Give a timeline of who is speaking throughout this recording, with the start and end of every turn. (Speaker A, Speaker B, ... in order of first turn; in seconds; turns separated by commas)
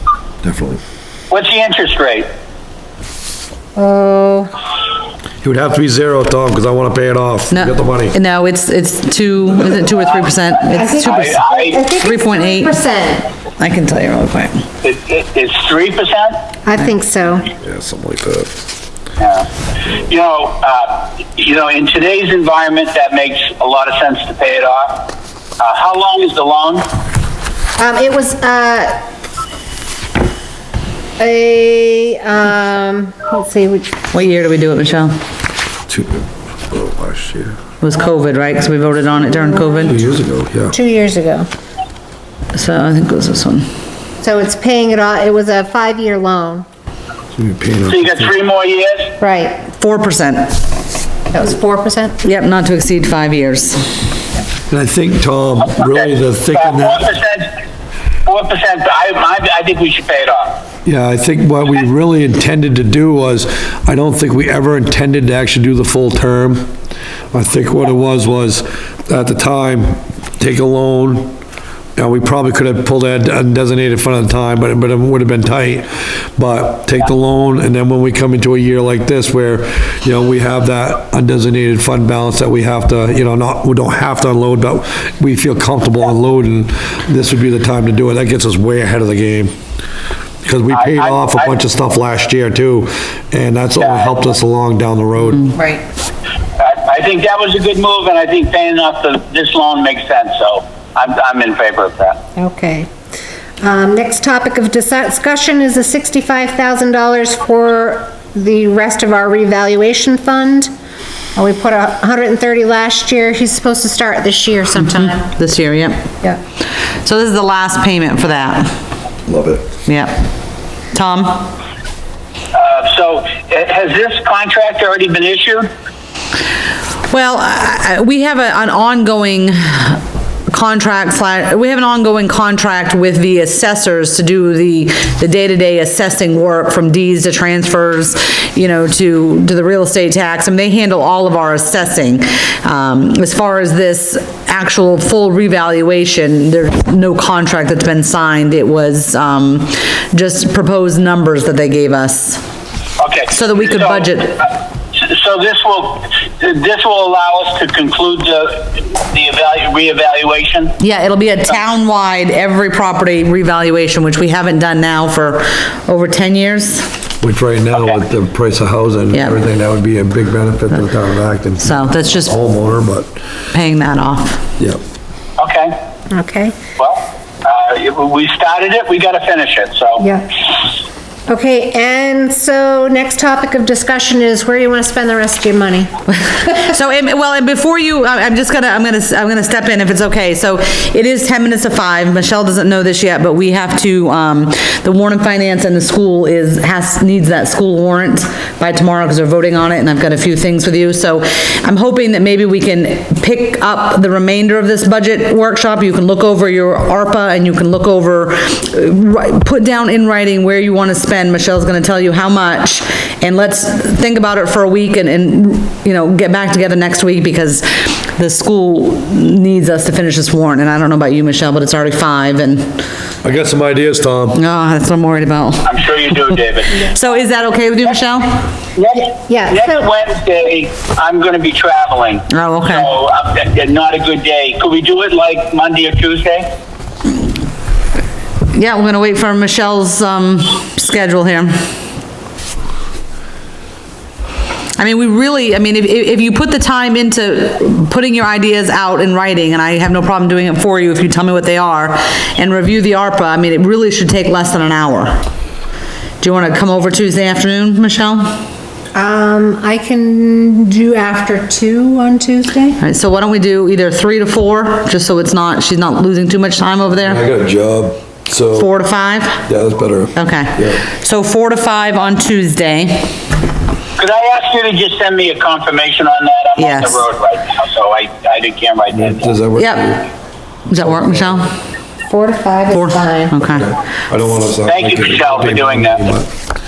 Speaker A: 0.4-0.8, Speaker B: 1.3-2.3, Speaker C: 3.8-4.5, Speaker A: 5.4-8.2, Speaker D: 7.5-12.8, Speaker C: 10.7-13.3, Speaker B: 10.9-11.8, Speaker D: 13.6-14.6, Speaker B: 14.8-16.4, Speaker C: 16.6-17.5, Speaker A: 17.6-18.5, Speaker B: 19.2-19.5, Speaker B: 20.1-25.1, Speaker B: 25.6-26.9, Speaker C: 27.8-29.0, Speaker C: 31.2-34.0, Speaker D: 34.1-35.1, Speaker A: 35.9-37.6, Speaker D: 37.8-40.0, Speaker A: 39.9-40.8, Speaker C: 40.7-41.5, Speaker D: 42.5-43.7, Speaker C: 44.2-46.6, Speaker A: 47.3-48.3, Speaker B: 47.9-49.1, Speaker C: 49.2-49.6, Speaker D: 49.7-50.6, Speaker C: 51.3-52.2, Speaker D: 52.2-54.1, Speaker A: 54.7-57.1, Speaker B: 55.6-57.5, Speaker B: 58.2-60.5, Speaker A: 60.8-66.7, Speaker A: 67.3-71.3, Speaker A: 72.0-89.5, Speaker A: 90.4-95.5, Speaker B: 90.7-91.5, Speaker B: 93.8-94.2, Speaker C: 95.5-95.8, Speaker B: 96.6-102.2, Speaker C: 102.4-102.9, Speaker C: 103.6-110.7, Speaker C: 111.3-115.3, Speaker D: 115.2-116.1, Speaker D: 117.0-118.7, Speaker A: 119.3-119.7, Speaker D: 119.8-120.3, Speaker D: 120.9-121.5, Speaker B: 122.5-125.7, Speaker D: 127.1-152.4, Speaker B: 153.0-160.8, Speaker D: 153.3-154.4, Speaker D: 160.8-167.0, Speaker A: 167.2-173.1, Speaker B: 167.7-168.0, Speaker D: 169.1-169.4, Speaker D: 171.6-172.3, Speaker D: 173.5-174.4, Speaker B: 175.4-175.8, Speaker C: 176.1-176.6, Speaker B: 176.8-180.0, Speaker C: 180.0-180.3, Speaker C: 181.3-185.9, Speaker D: 186.3-222.8, Speaker A: 223.2-224.4, Speaker D: 224.3-225.7, Speaker B: 225.6-227.2, Speaker D: 226.8-228.4, Speaker B: 228.7-236.4, Speaker C: 229.1-229.9, Speaker D: 232.3-232.9, Speaker D: 238.5-241.5, Speaker D: 244.8-255.2, Speaker D: 256.2-258.4, Speaker C: 258.9-262.8, Speaker D: 262.8-267.2, Speaker A: 267.0-268.7, Speaker D: 268.5-269.4, Speaker A: 269.4-270.8, Speaker D: 270.1-273.1, Speaker B: 274.0-279.3, Speaker D: 276.6-277.0, Speaker A: 278.9-280.1, Speaker D: 279.6-279.9, Speaker D: 280.7-281.5, Speaker A: 280.7-281.5, Speaker C: 282.1-283.3, Speaker D: 282.7-283.7, Speaker A: 283.4-286.3, Speaker B: 284.6-286.1